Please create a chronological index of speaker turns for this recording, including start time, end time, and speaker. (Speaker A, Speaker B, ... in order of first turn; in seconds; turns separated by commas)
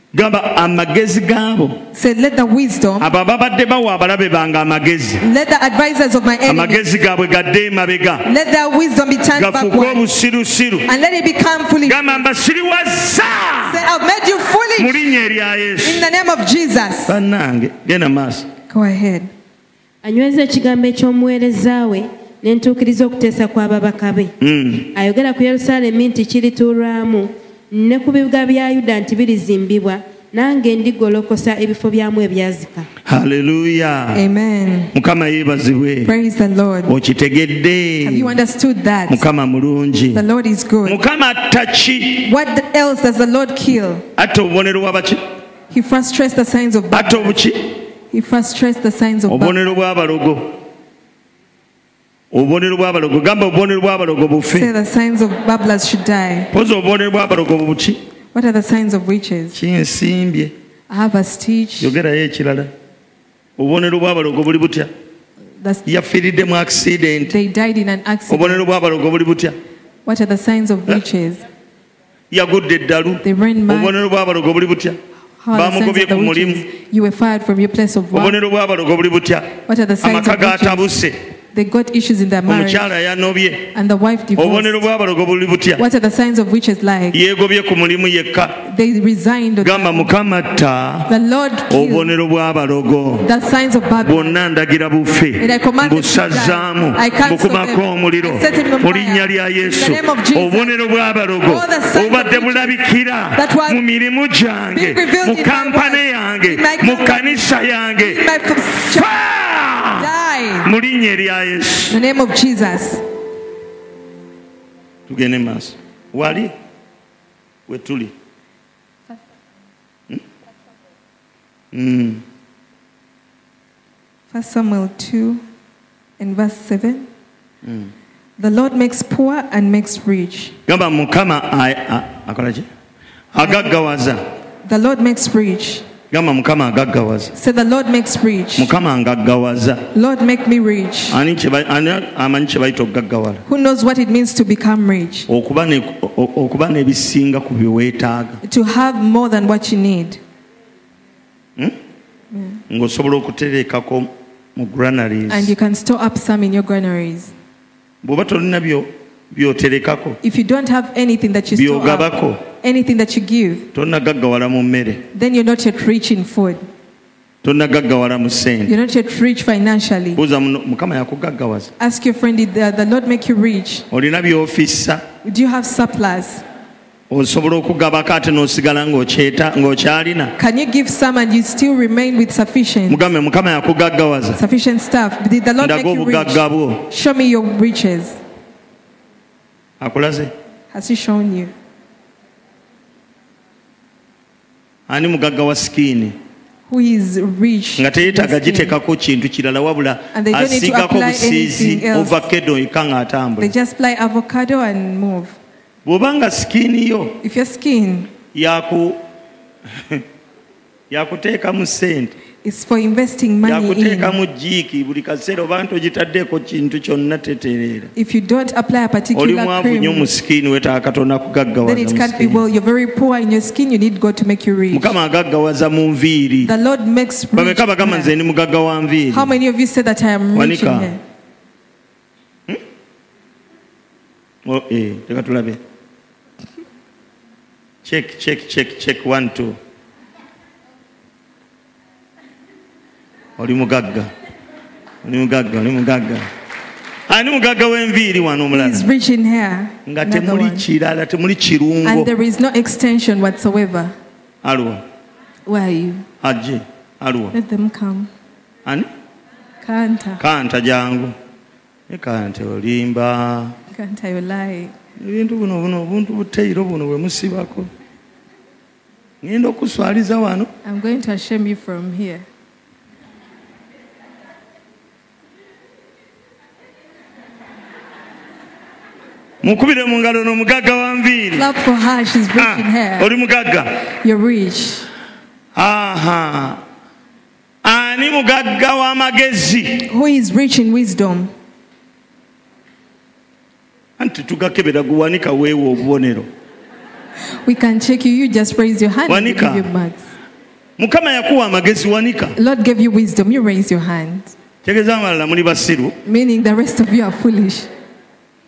Speaker A: 0.1-1.8, Speaker B: 1.9-3.1, Speaker A: 3.0-5.2, Speaker B: 5.2-6.9, Speaker A: 6.5-8.3, Speaker B: 8.2-10.1, Speaker A: 9.3-10.9, Speaker B: 10.9-12.2, Speaker A: 11.8-13.8, Speaker B: 13.7-15.1, Speaker A: 14.8-16.1, Speaker B: 15.8-17.1, Speaker A: 17.1-18.5, Speaker B: 18.7-19.3, Speaker C: 20.0-24.3, Speaker A: 24.4-24.9, Speaker C: 24.9-32.9, Speaker A: 33.1-34.2, Speaker B: 34.1-34.9, Speaker A: 34.9-36.1, Speaker B: 36.0-36.9, Speaker A: 36.9-38.3, Speaker B: 38.0-39.2, Speaker A: 39.1-40.2, Speaker B: 40.1-41.0, Speaker A: 40.9-42.3, Speaker B: 42.2-44.0, Speaker A: 44.2-45.2, Speaker B: 45.7-47.4, Speaker A: 46.9-47.8, Speaker B: 48.1-49.6, Speaker A: 49.3-50.6, Speaker A: 52.3-54.7, Speaker B: 54.5-56.5, Speaker A: 56.5-58.0, Speaker B: 58.3-59.6, Speaker A: 59.5-60.5, Speaker B: 60.9-62.0, Speaker A: 61.8-62.7, Speaker A: 63.6-64.9, Speaker A: 65.9-67.3, Speaker B: 67.3-68.6, Speaker A: 68.3-69.6, Speaker B: 70.1-71.4, Speaker A: 72.3-75.0, Speaker B: 73.2-74.0, Speaker B: 75.4-78.4, Speaker A: 75.5-76.7, Speaker A: 78.1-81.2, Speaker B: 79.7-80.9, Speaker B: 81.5-82.9, Speaker A: 82.5-83.7, Speaker B: 83.7-84.8, Speaker A: 84.4-85.8, Speaker B: 85.8-87.2, Speaker A: 87.1-88.7, Speaker B: 88.7-90.1, Speaker A: 89.6-91.1, Speaker B: 91.1-92.1, Speaker A: 91.7-93.3, Speaker B: 93.2-94.4, Speaker A: 94.0-108.3, Speaker B: 95.4-100.8, Speaker B: 101.5-102.8, Speaker B: 103.3-103.8, Speaker B: 104.7-109.2, Speaker A: 108.8-110.1, Speaker B: 110.0-110.7, Speaker A: 110.6-112.0, Speaker B: 111.9-113.0, Speaker A: 115.1-116.5, Speaker A: 117.7-118.1, Speaker A: 121.7-122.2, Speaker B: 124.3-125.4, Speaker B: 126.2-127.1, Speaker A: 127.6-127.9, Speaker B: 128.4-130.5, Speaker A: 130.7-132.7, Speaker A: 133.3-134.2, Speaker B: 134.7-135.8, Speaker A: 136.1-137.3, Speaker B: 137.4-138.7, Speaker A: 138.6-139.9, Speaker B: 139.9-141.2, Speaker A: 141.1-143.4, Speaker B: 143.5-145.3, Speaker A: 145.3-148.4, Speaker B: 148.4-150.2, Speaker B: 152.3-152.6, Speaker A: 152.7-155.5, Speaker B: 155.3-157.3, Speaker A: 158.0-160.2, Speaker B: 160.2-163.7, Speaker A: 161.5-162.4, Speaker A: 163.7-165.0, Speaker B: 165.1-166.6, Speaker A: 167.4-168.7, Speaker B: 168.7-170.2, Speaker A: 170.2-171.7, Speaker B: 171.8-173.8, Speaker A: 173.9-175.1, Speaker B: 175.2-176.4, Speaker A: 177.1-180.3, Speaker B: 180.4-183.0, Speaker A: 182.9-184.4, Speaker B: 184.4-188.2, Speaker A: 185.6-186.9, Speaker A: 189.8-190.3, Speaker B: 190.7-191.5, Speaker A: 194.9-196.2, Speaker B: 196.7-198.8, Speaker A: 197.8-203.5, Speaker B: 200.1-202.2, Speaker B: 203.4-205.3, Speaker A: 205.8-207.2, Speaker B: 207.2-208.1, Speaker A: 208.3-209.0, Speaker A: 209.8-210.0, Speaker A: 210.9-212.1, Speaker B: 212.4-214.2, Speaker A: 213.4-217.9, Speaker B: 218.0-220.1, Speaker A: 219.1-222.4, Speaker B: 221.7-224.9, Speaker A: 224.7-226.5, Speaker B: 226.4-228.1, Speaker A: 227.3-229.3, Speaker B: 229.1-231.0, Speaker A: 230.3-230.9, Speaker A: 234.4-235.6, Speaker A: 237.8-239.6, Speaker A: 243.4-244.1, Speaker A: 245.0-246.3, Speaker A: 247.1-248.8, Speaker B: 248.5-250.7, Speaker A: 249.9-252.1, Speaker B: 251.8-253.9, Speaker A: 254.4-254.8, Speaker B: 255.5-256.0, Speaker A: 256.2-257.4, Speaker B: 257.3-258.1, Speaker B: 259.6-260.2, Speaker A: 260.2-261.1, Speaker A: 261.9-263.6, Speaker B: 263.7-264.7, Speaker A: 265.0-267.7, Speaker A: 269.2-270.5, Speaker B: 270.6-272.2, Speaker A: 279.4-281.5, Speaker B: 281.4-283.1, Speaker A: 282.4-283.8, Speaker B: 284.0-284.9, Speaker A: 285.6-286.6, Speaker A: 287.6-289.9, Speaker B: 289.9-291.3, Speaker A: 294.0-296.3, Speaker B: 297.4-300.0, Speaker A: 299.1-299.7, Speaker A: 300.8-302.4, Speaker B: 302.4-304.3, Speaker A: 304.6-306.0, Speaker B: 306.1-307.7